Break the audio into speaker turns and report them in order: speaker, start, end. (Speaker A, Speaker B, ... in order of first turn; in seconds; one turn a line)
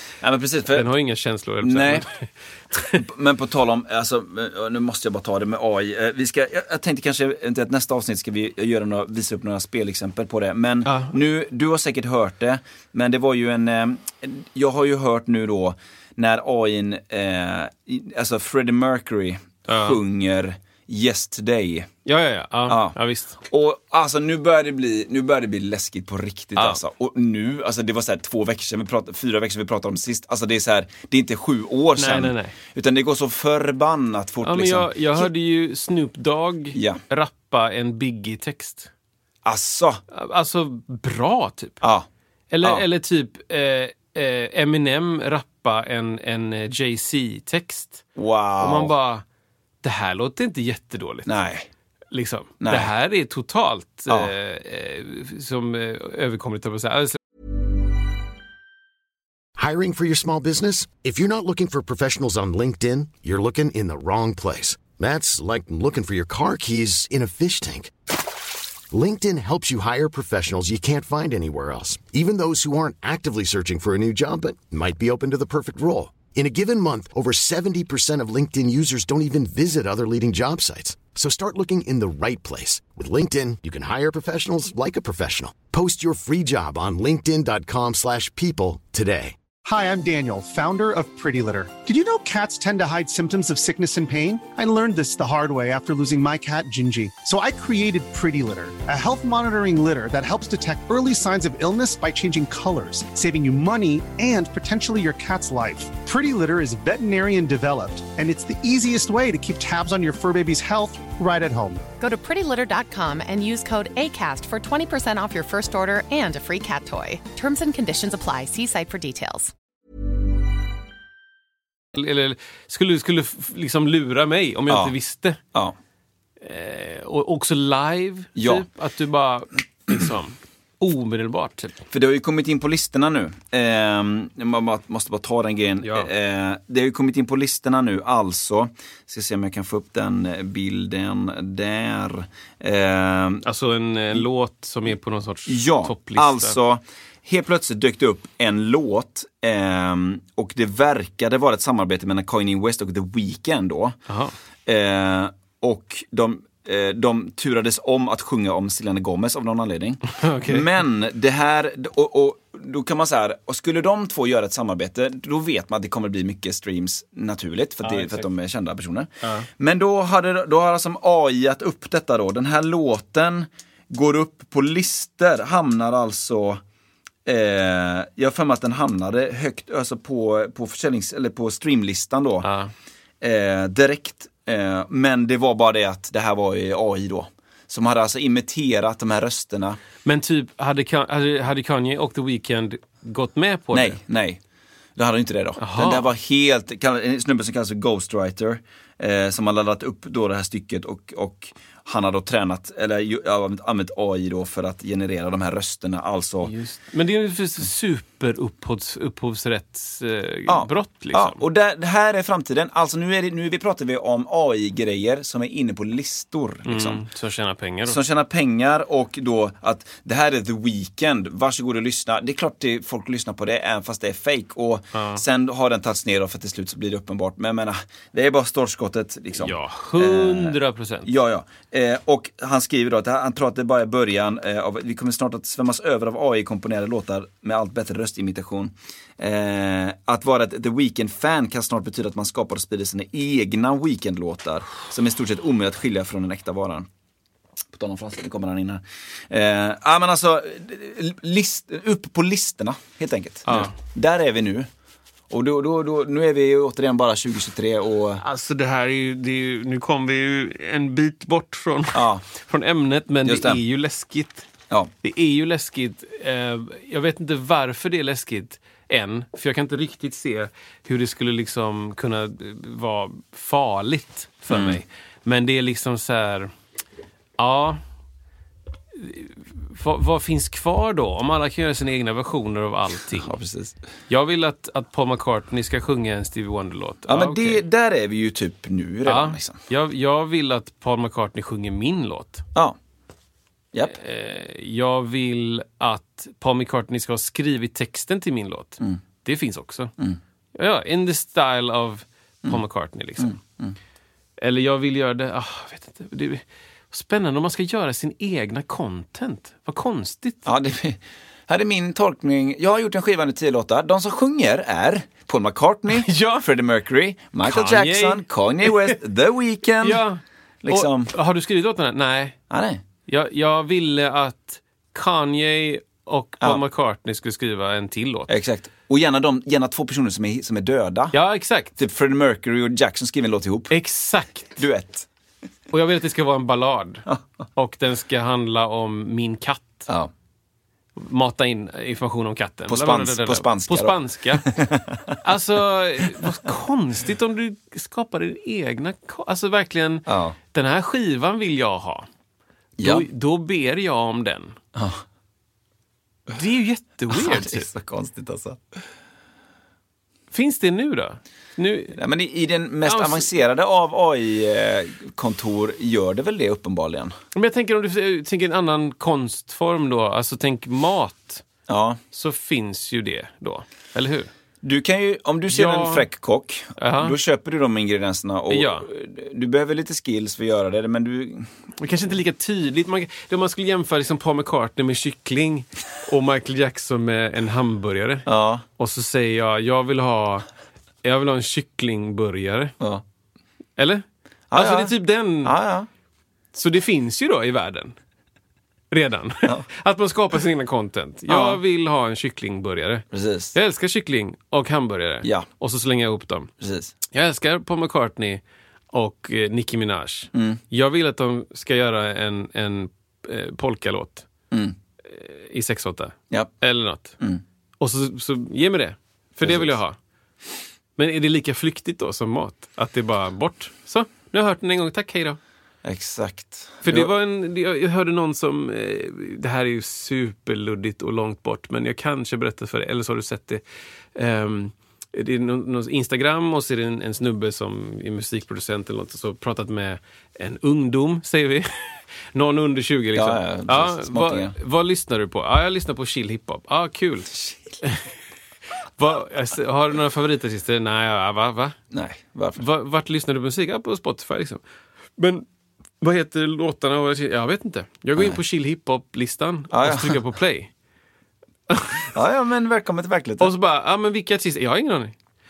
Speaker A: 0.2-0.9
Speaker B: 0.7-3.0
Speaker A: 1.6-2.1
Speaker A: 2.9-21.9
Speaker B: 10.9-11.2
Speaker B: 19.7-20.0
Speaker B: 22.1-23.4
Speaker A: 22.7-35.3
Speaker B: 32.0-32.6
Speaker B: 34.4-38.9
Speaker A: 36.7-37.0
Speaker A: 39.5-40.0
Speaker B: 40.1-41.8
Speaker A: 41.8-42.1
Speaker B: 42.5-48.0
Speaker A: 48.2-48.9
Speaker B: 48.6-49.2
Speaker B: 49.8-51.3
Speaker A: 51.3-51.7
Speaker B: 52.1-57.2
Speaker A: 52.6-52.9
Speaker C: 59.6-67.9
Speaker C: 68.9-89.3
Speaker D: 89.7-111.8
Speaker E: 112.0-119.5
Speaker B: 121.9-125.4
Speaker A: 124.7-124.9
Speaker B: 126.4-131.8
Speaker A: 128.4-128.7
Speaker A: 131.9-143.4
Speaker B: 135.8-136.1
Speaker B: 143.4-146.6
Speaker A: 145.5-154.0
Speaker B: 154.1-154.3
Speaker A: 154.7-176.6
Speaker B: 160.1-160.7
Speaker B: 167.8-168.3
Speaker B: 169.2-169.5
Speaker A: 177.3-182.5
Speaker B: 182.4-182.7
Speaker A: 183.2-189.8
Speaker B: 190.1-194.0
Speaker A: 193.7-194.4
Speaker A: 195.0-206.5
Speaker B: 195.6-196.1
Speaker B: 206.4-211.4
Speaker A: 210.5-217.0
Speaker B: 216.7-218.0
Speaker A: 217.9-246.9
Speaker B: 224.9-225.2
Speaker B: 229.4-231.1
Speaker A: 247.7-254.7
Speaker B: 253.5-253.7
Speaker A: 255.3-258.2
Speaker B: 258.2-264.5
Speaker A: 261.9-262.2
Speaker A: 263.2-263.6
Speaker B: 265.0-276.5
Speaker A: 274.5-274.8
Speaker B: 277.4-277.8
Speaker B: 278.9-283.3
Speaker A: 283.2-283.8
Speaker B: 284.1-287.6
Speaker A: 287.1-289.6
Speaker B: 289.1-292.4
Speaker B: 293.9-299.9
Speaker B: 300.6-303.4
Speaker A: 303.2-303.8
Speaker B: 304.4-310.5
Speaker A: 310.4-320.0
Speaker B: 315.9-316.5
Speaker B: 317.4-319.0
Speaker B: 319.8-322.4
Speaker A: 320.6-321.1
Speaker A: 322.5-322.8
Speaker B: 323.1-328.3
Speaker A: 328.3-331.2
Speaker B: 331.1-331.7
Speaker A: 331.8-333.7
Speaker B: 333.7-334.6
Speaker A: 334.6-335.1
Speaker B: 335.7-337.0
Speaker B: 337.6-339.9
Speaker B: 341.0-344.5
Speaker A: 342.7-345.2
Speaker B: 345.2-352.1
Speaker A: 350.1-350.4
Speaker A: 352.8-353.1
Speaker B: 352.8-354.6
Speaker A: 354.8-355.0
Speaker B: 356.3-357.7
Speaker A: 357.1-358.6
Speaker B: 360.3-362.0
Speaker A: 361.9-367.1
Speaker B: 362.9-363.3
Speaker B: 367.3-371.4
Speaker A: 371.7-372.0
Speaker B: 372.1-374.3
Speaker A: 374.6-381.5
Speaker B: 375.5-376.1
Speaker B: 376.8-377.2
Speaker B: 378.5-378.9
Speaker B: 381.8-390.5
Speaker A: 388.3-388.6
Speaker B: 391.0-392.8
Speaker B: 393.8-395.6
Speaker A: 394.5-395.9
Speaker B: 396.5-398.0
Speaker B: 398.9-406.5
Speaker A: 401.3-401.6
Speaker A: 403.1-403.5
Speaker A: 405.2-405.5
Speaker A: 406.6-406.9
Speaker B: 407.1-414.3
Speaker A: 410.3-410.6
Speaker A: 414.5-414.8
Speaker B: 415.0-417.2
Speaker B: 417.8-420.0
Speaker A: 419.4-419.7
Speaker B: 421.0-425.4
Speaker A: 425.8-427.1
Speaker B: 426.8-433.6
Speaker B: 434.1-448.1
Speaker A: 443.1-444.6
Speaker B: 449.0-451.8
Speaker A: 451.9-452.6
Speaker B: 452.6-454.6
Speaker B: 455.2-455.5
Speaker B: 456.0-460.7
Speaker A: 459.7-460.2
Speaker B: 461.7-462.1
Speaker A: 462.1-463.5
Speaker B: 463.4-465.1